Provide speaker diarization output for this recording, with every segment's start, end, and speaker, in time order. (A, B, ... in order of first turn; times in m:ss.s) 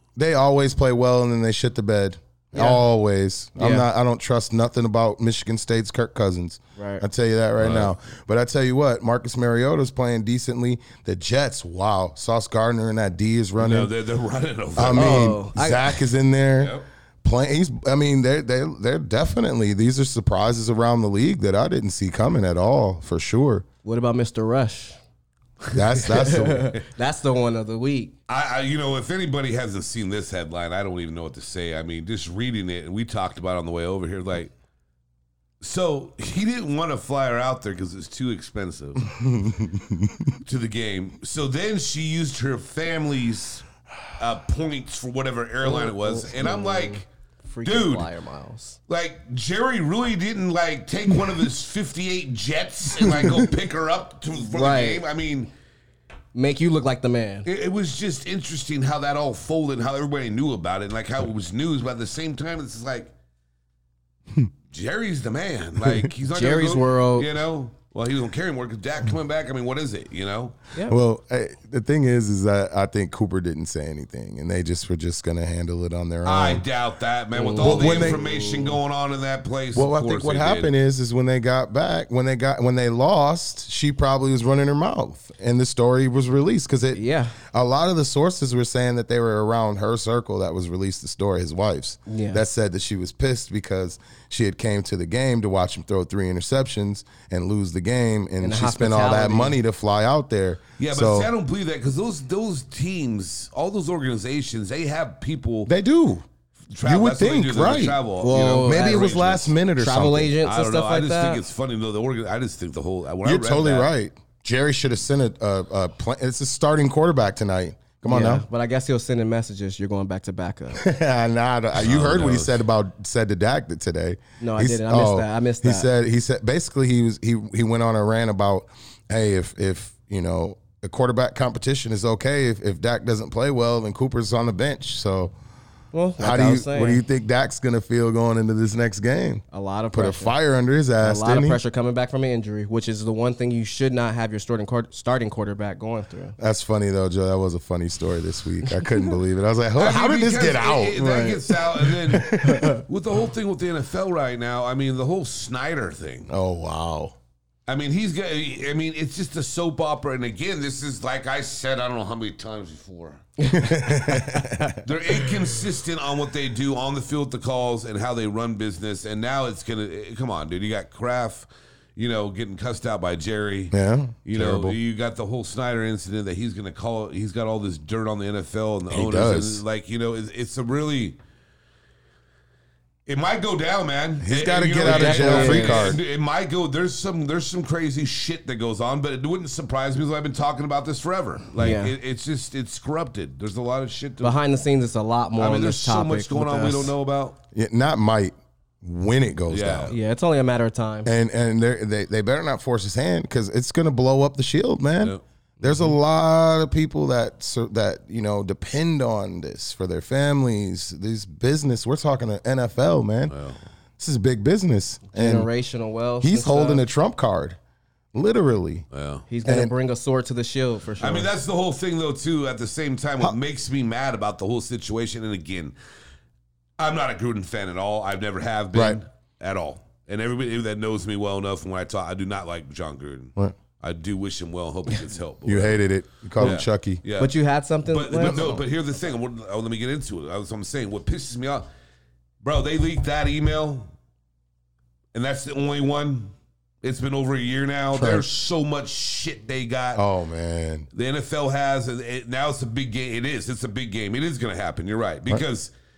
0:00.2-0:13.9 A
0:02.6-0:02.8 B
0:03.6-0:03.9 B
0:06.8-0:07.0 B
0:07.6-0:07.9 C
0:13.6-0:15.4 C
0:14.8-0:23.6 A
0:14.9-0:16.0 B
0:16.6-0:16.9 C
0:23.8-0:25.0 B
0:25.7-0:26.8 A
0:26.0-0:28.1 B
0:28.3-0:34.5 C
0:35.6-0:39.1 C
0:39.0-0:40.4 A
0:40.4-0:43.7 C
0:44.2-0:47.0 C
0:45.6-0:48.8 B
0:47.6-0:48.1 C
0:48.9-0:55.5 C
0:53.0-0:53.5 A
0:54.4-0:55.0 B
0:56.3-0:57.5 B
0:57.4-1:03.1 C
1:04.7-1:10.6 C
1:06.3-1:07.4 B
1:10.9-1:16.6 A
1:16.2-1:20.7 C
1:17.4-1:18.8 B
1:17.6-1:18.2 A
1:19.7-1:41.3 A
1:26.9-1:27.4 B
1:32.1-1:32.4 B
1:38.4-1:39.6 B
1:40.8-1:45.7 C
1:45.7-1:46.2 A
1:46.7-1:49.5 C
1:46.8-1:50.4 A
1:48.2-1:51.4 B
1:50.4-1:53.9 C
1:53.2-1:58.5 A
1:58.1-2:00.8 B
2:00.7-2:15.3 A
2:01.8-2:02.6 C
2:04.4-2:05.9 B
2:15.9-2:17.0 B
2:16.2-2:21.6 A
2:19.5-2:20.4 B
2:21.0-2:26.4 B
2:26.4-2:32.8 A
2:29.8-2:36.3 C
2:31.0-2:31.4 B
2:32.4-2:32.8 B
2:36.3-2:37.2 A
2:37.7-2:43.2 C
2:43.4-2:44.8 B
2:43.5-2:44.8 A
2:44.8-3:01.2 C
2:53.7-2:54.8 A
2:58.9-2:59.6 A
3:03.1-3:14.4 C
3:04.2-3:06.0 A
3:04.8-3:06.0 B
3:11.6-3:11.9 B
3:14.2-3:16.9 B
3:15.4-3:17.4 C
3:17.5-3:19.9 A
3:19.5-3:20.0 C
3:19.9-3:21.1 B
3:21.0-3:33.4 A
3:25.6-3:26.0 B
3:33.3-3:33.6 C
3:34.0-3:35.5 A
3:35.1-3:36.8 B
3:36.2-3:37.6 A
3:38.1-3:38.9 A
3:38.9-3:39.3 C
3:39.3-3:41.3 B
3:39.4-3:39.7 A
3:41.0-3:45.8 C
3:46.8-3:55.8 C
3:48.7-3:49.0 A
3:55.4-3:57.0 A
3:56.4-3:57.3 C
3:57.2-3:58.5 B
3:57.8-4:01.7 C
3:58.2-3:58.6 A
4:02.4-4:03.9 C
4:05.1-4:10.0 C
4:07.9-4:08.3 A
4:10.0-4:10.9 A
4:10.9-4:15.7 C